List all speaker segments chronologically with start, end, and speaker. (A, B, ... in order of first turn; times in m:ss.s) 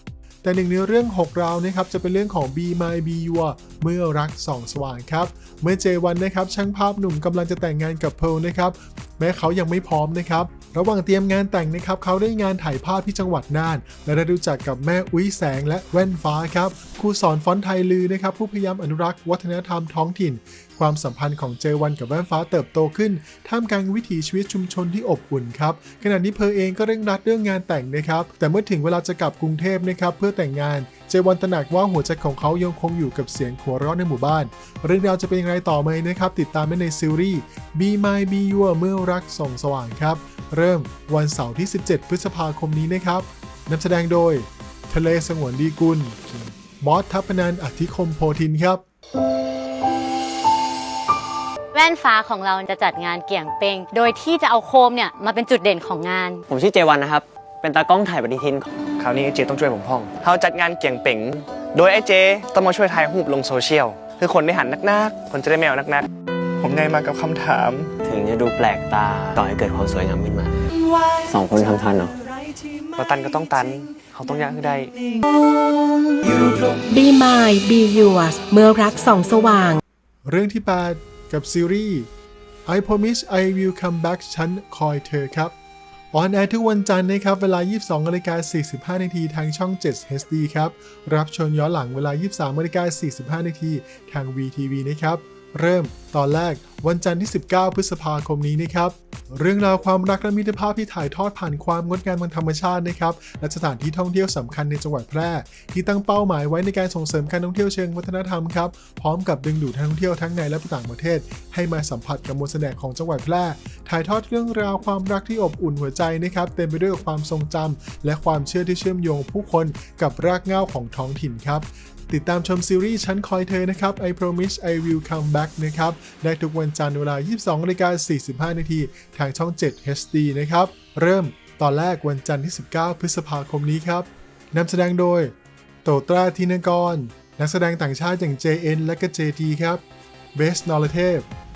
0:00.4-0:48.8 A
0:51.7-0:56.4 B
0:56.5-0:58.6 C
0:59.0-1:06.1 D
1:06.6-1:07.9 D
1:08.0-1:10.5 C
1:11.3-1:12.1 C
1:13.0-1:14.9 D
1:16.8-1:19.8 E
1:20.2-1:22.1 A
1:22.7-1:25.5 A
1:26.1-2:19.8 A
2:20.3-2:21.3 A